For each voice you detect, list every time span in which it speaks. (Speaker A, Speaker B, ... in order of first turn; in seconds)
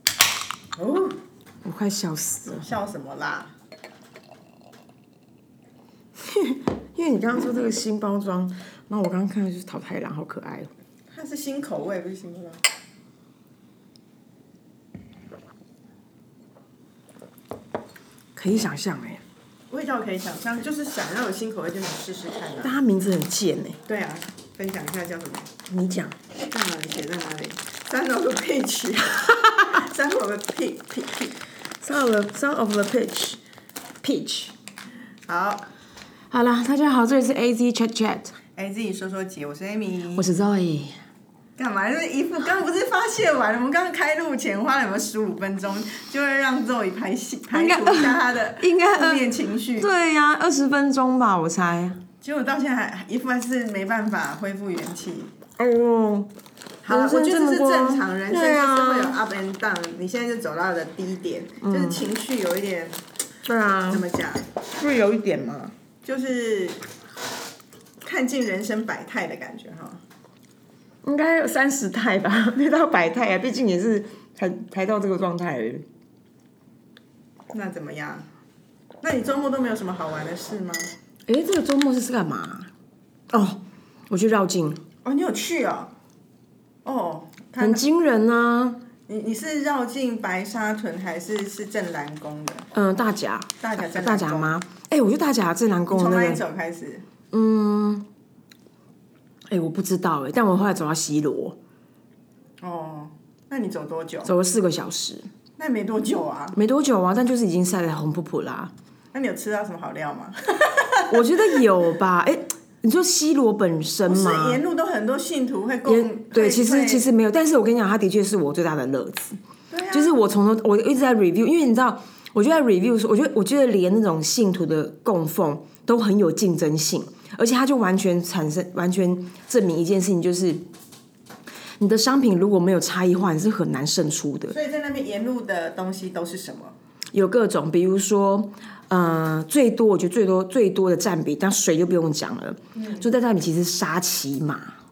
Speaker A: 0.8-1.2, 2.5-3.5, 11.1-12.6, 19.7-22.8, 23.9-25.5, 26.5-31.3, 35.3-35.6, 38.5-40.3, 41.6-49.9, 52.2-55.3, 56.8-63.0, 63.9-64.5, 66.0-66.8, 68.0-70.0, 77.5-78.2, 79.0-80.9, 85.0-85.9, 86.8-87.8, 89.1-92.7, 93.6-94.5, 95.9-97.0, 102.6-104.3, 105.6-106.5, 109.1-111.7, 114.0-117.1, 119.7-120.1, 134.5-136.7, 142.7-143.1
Speaker B: 1.6-2.6, 6.2-10.7, 18.4-19.2, 22.6-23.8, 25.7-26.1, 31.8-33.4, 34.0-34.5, 36.3-38.4, 40.1-41.0, 47.5-49.2, 49.8-52.0, 55.6-56.3, 56.9-59.2, 61.6-62.0, 63.4-64.0, 64.7-65.7, 71.0-75.8, 81.3-82.7, 83.3-84.8, 87.6-88.8, 92.7-96.4, 97.3-98.0, 99.5-101.6, 104.2-105.3, 106.5-108.7, 111.1-114.6, 115.8-119.4, 119.9-130.6, 131.8-134.5, 137.1-144.7